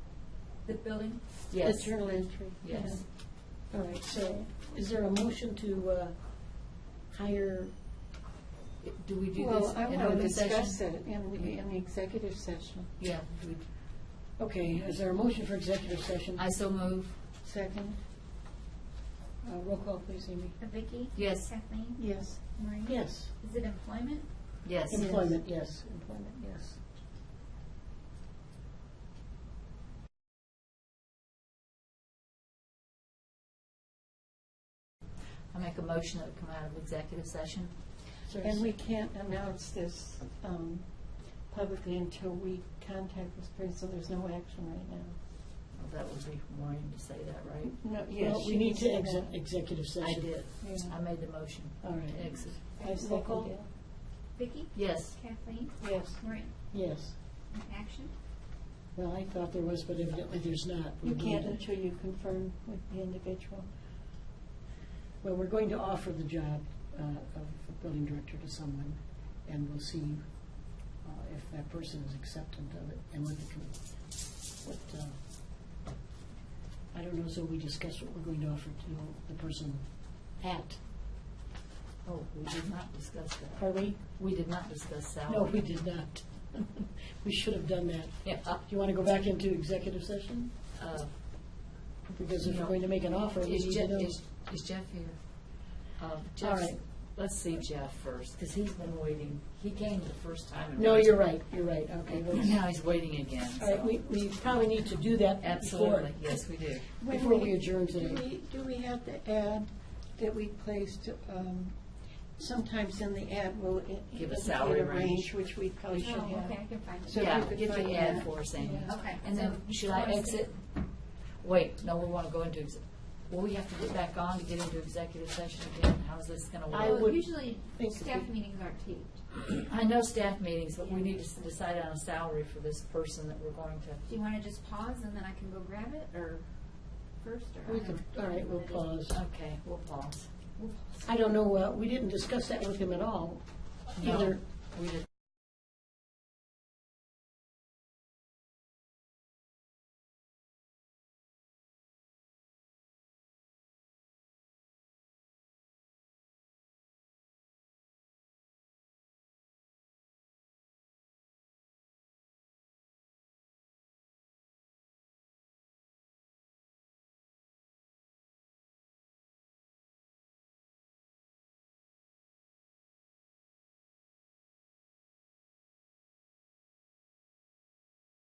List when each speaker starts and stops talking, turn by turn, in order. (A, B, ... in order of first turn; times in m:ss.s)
0:00.6-0:01.4 A
0:01.5-0:03.0 B
0:01.5-0:04.2 C
0:04.0-0:07.7 D
0:08.8-0:10.8 B
0:09.4-0:13.0 C
0:13.0-0:13.6 B
0:14.4-0:16.5 D
0:16.4-0:17.2 B
0:17.4-0:18.0 C
0:19.4-0:20.6 D
0:20.6-0:24.7 A
0:21.2-0:21.5 B
0:22.0-0:22.4 C
0:22.8-0:23.3 D
0:24.6-0:25.2 B
0:24.9-0:26.8 D
0:24.9-0:25.4 C
0:35.5-0:37.7 B
0:38.3-0:38.7 D
0:38.4-0:45.2 C
0:45.7-0:47.8 B
0:47.6-0:49.4 C
0:48.1-0:50.5 D
0:50.0-0:52.6 B
0:50.6-0:51.0 C
0:51.8-0:53.6 D
0:52.8-0:53.7 C
0:54.3-0:58.1 A
0:54.7-0:55.2 B
0:55.8-0:56.2 C
0:56.7-0:57.2 D
0:59.0-1:01.6 D
1:01.0-1:03.7 C
1:05.2-1:15.2 D
1:16.9-1:20.8 D
1:22.0-1:25.5 B
1:23.6-1:24.0 D
1:25.3-1:30.5 D
1:28.2-1:28.6 B
1:30.7-1:31.6 B
1:32.0-1:34.2 D
1:32.4-1:41.5 B
1:36.4-1:36.8 D
1:40.8-1:42.8 D
1:42.0-1:44.0 B
1:43.6-1:48.2 D
1:45.4-1:46.8 B
1:47.0-1:59.0 C
1:54.1-1:56.2 B
1:56.0-1:57.5 A
1:57.1-2:07.1 B
1:58.8-2:00.5 A
2:06.7-2:08.3 D
2:06.7-2:09.5 A
2:09.6-2:14.0 B
2:10.8-2:11.5 A
2:14.1-2:18.8 A
2:17.7-2:19.2 D
2:19.1-2:20.3 B
2:20.6-2:21.1 A
2:21.1-2:24.4 D
2:24.0-2:25.1 B